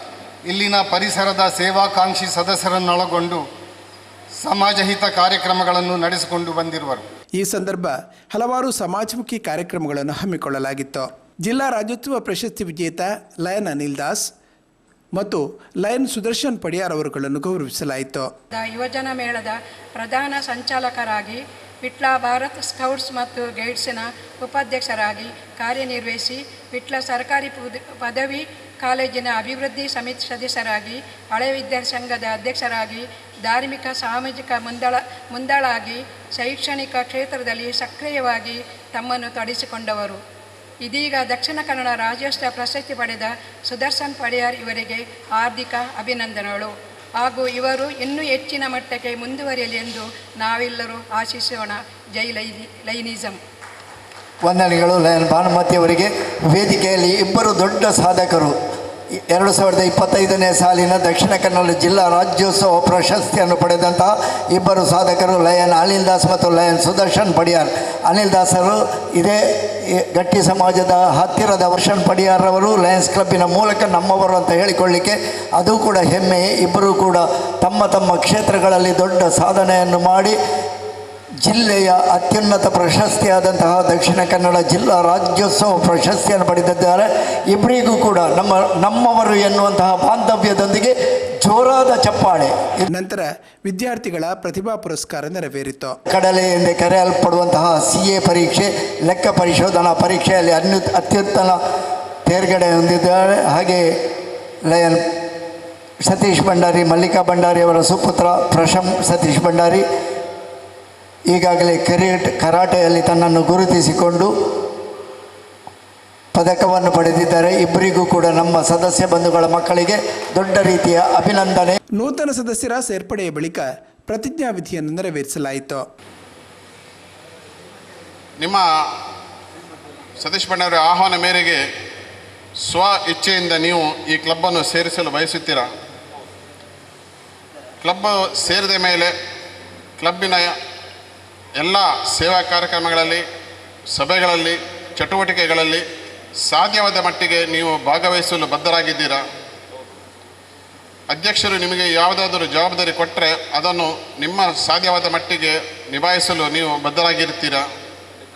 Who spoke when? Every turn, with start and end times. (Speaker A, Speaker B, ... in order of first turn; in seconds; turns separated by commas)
Speaker A: 0.5-3.4, Speaker A: 4.4-7.0, Speaker B: 7.4-14.3, Speaker B: 15.1-18.3, Speaker C: 18.5-40.2, Speaker C: 40.8-53.4, Speaker D: 54.4-58.5, Speaker D: 59.3-80.3, Speaker D: 81.4-92.8, Speaker B: 92.9-96.0, Speaker D: 96.1-101.6, Speaker D: 102.2-103.8, Speaker D: 104.7-105.0, Speaker D: 106.0-109.8, Speaker D: 111.3-114.3, Speaker D: 116.3-121.8, Speaker B: 122.0-125.8, Speaker E: 128.4-128.6, Speaker E: 130.2-131.6, Speaker E: 132.6-135.7, Speaker E: 137.8-139.1, Speaker E: 140.0-140.6, Speaker E: 141.6-143.2, Speaker E: 143.9-145.8, Speaker E: 146.4-149.2, Speaker E: 151.1-157.7